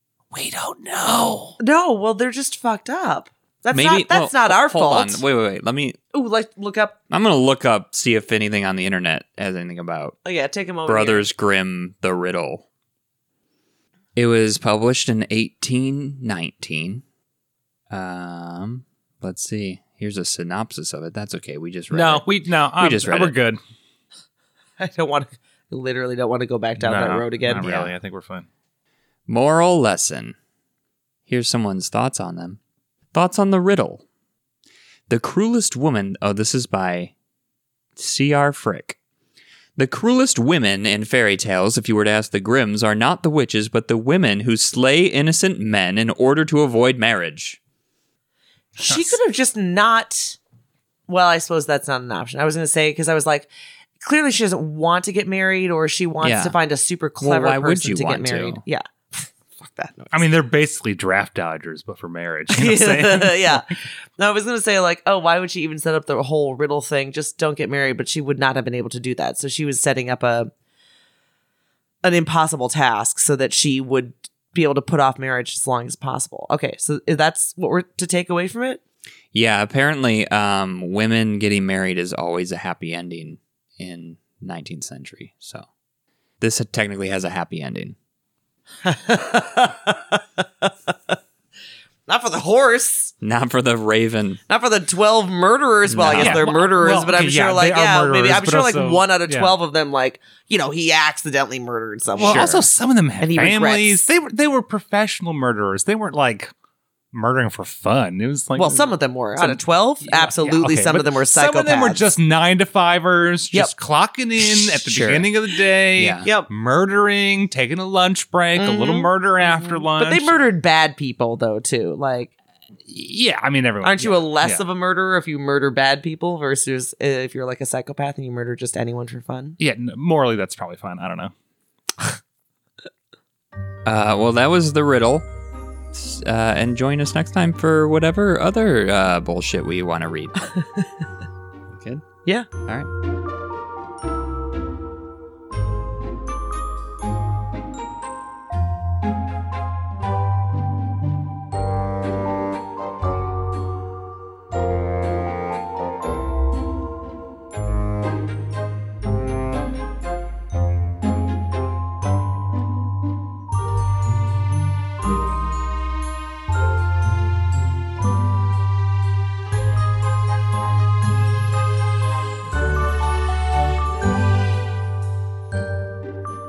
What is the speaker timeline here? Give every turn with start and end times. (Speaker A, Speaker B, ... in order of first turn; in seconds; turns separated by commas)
Speaker A: 0.3-1.6, Speaker B: 1.6-5.2, Speaker C: 3.7-6.0, Speaker B: 6.1-7.0, Speaker C: 7.1-10.2, Speaker B: 10.2-11.3, Speaker C: 10.8-12.7, Speaker C: 14.2-17.0, Speaker C: 17.9-23.4, Speaker A: 21.9-23.6, Speaker B: 24.8-27.7, Speaker A: 26.8-28.5, Speaker C: 27.6-27.9, Speaker C: 29.3-30.4, Speaker C: 31.3-32.6, Speaker C: 33.1-34.0, Speaker C: 35.1-37.1, Speaker C: 38.0-39.0, Speaker C: 39.8-47.6, Speaker B: 48.7-50.4, Speaker A: 48.9-49.2, Speaker B: 51.1-53.5, Speaker B: 54.0-60.1, Speaker C: 56.2-56.5, Speaker C: 57.2-58.6, Speaker A: 60.1-63.6, Speaker B: 62.5-70.5, Speaker B: 72.0-78.8, Speaker C: 79.3-85.7, Speaker C: 86.4-88.0, Speaker B: 88.8-91.1, Speaker B: 92.1-93.1, Speaker C: 93.2-94.4, Speaker B: 94.5-102.5, Speaker C: 95.9-96.4, Speaker A: 96.1-99.5, Speaker A: 102.2-106.5, Speaker C: 102.2-102.6, Speaker B: 103.2-104.0, Speaker A: 107.1-120.4, Speaker B: 108.5-112.0, Speaker C: 114.8-115.3, Speaker C: 116.0-116.3, Speaker B: 116.2-116.5, Speaker B: 118.5-122.3, Speaker A: 122.8-124.6, Speaker B: 123.8-129.6, Speaker A: 129.6-131.3, Speaker C: 133.8-135.3, Speaker C: 135.9-140.4, Speaker C: 141.7-142.0, Speaker C: 142.6-142.9